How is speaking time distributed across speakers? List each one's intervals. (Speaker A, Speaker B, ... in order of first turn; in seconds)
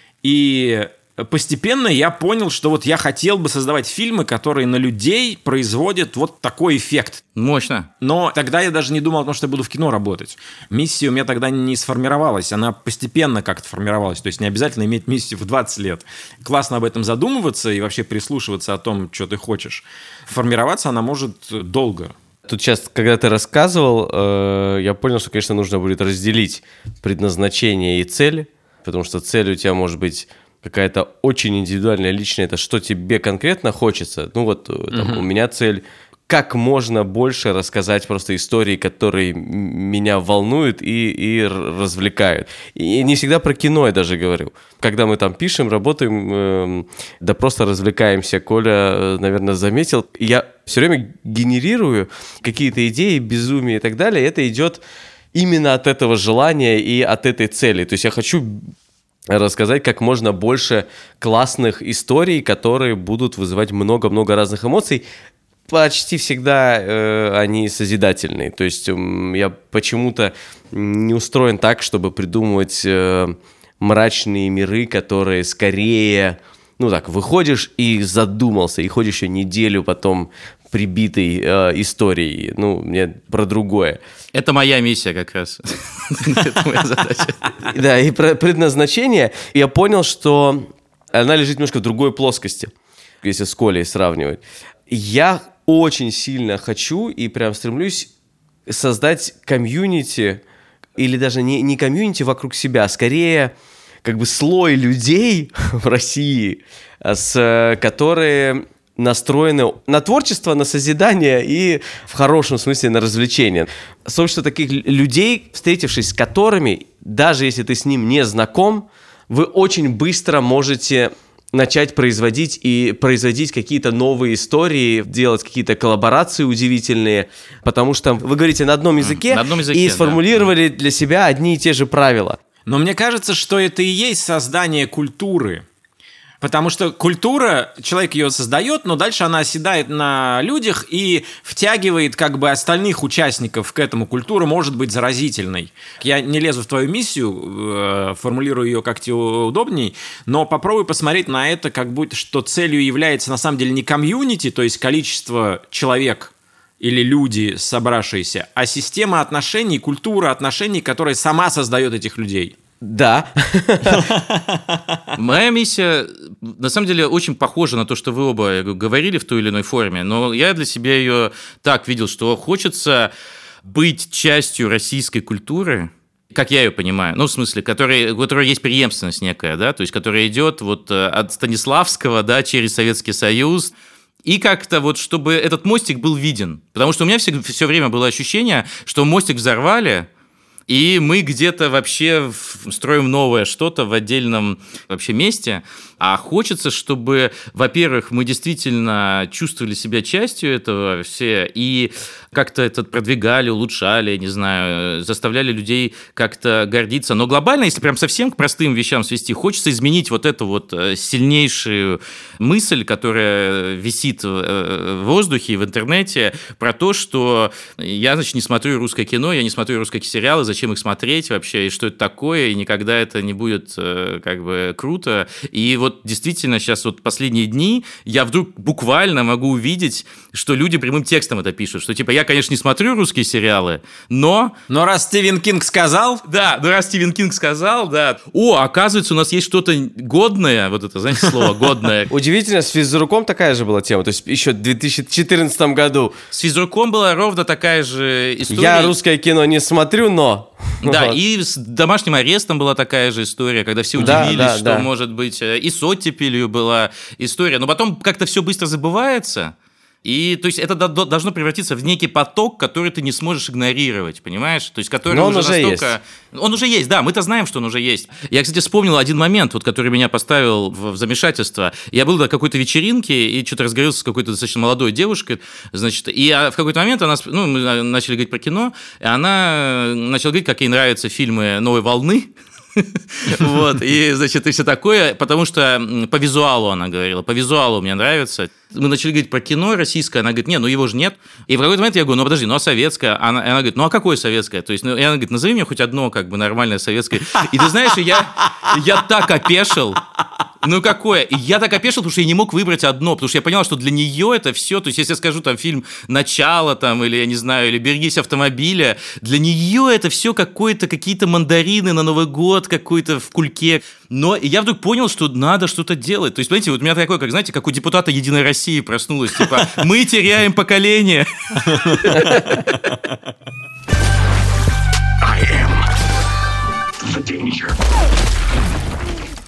Speaker A: 0.2-7.2, 8.0-22.1, 34.9-35.2, 132.7-135.6, 136.4-162.6, 163.9-165.0, 234.7-236.2, 254.0-254.3
Speaker B: 7.3-7.9, 84.3-87.5, 129.0-130.5, 165.1-173.1, 173.6-183.7, 184.2-190.1, 190.7-234.5, 236.2-242.1, 246.3-248.9, 250.8-300.0, 300.6-322.7
Speaker C: 22.5-54.8, 55.3-58.6, 59.3-65.0, 65.7-84.0, 87.7-92.7, 93.2-98.1, 98.7-100.4, 101.0-103.5, 104.0-132.4, 162.8-164.1, 242.1-246.2, 248.5-251.2, 254.0-254.9, 265.1-265.9, 322.1-322.6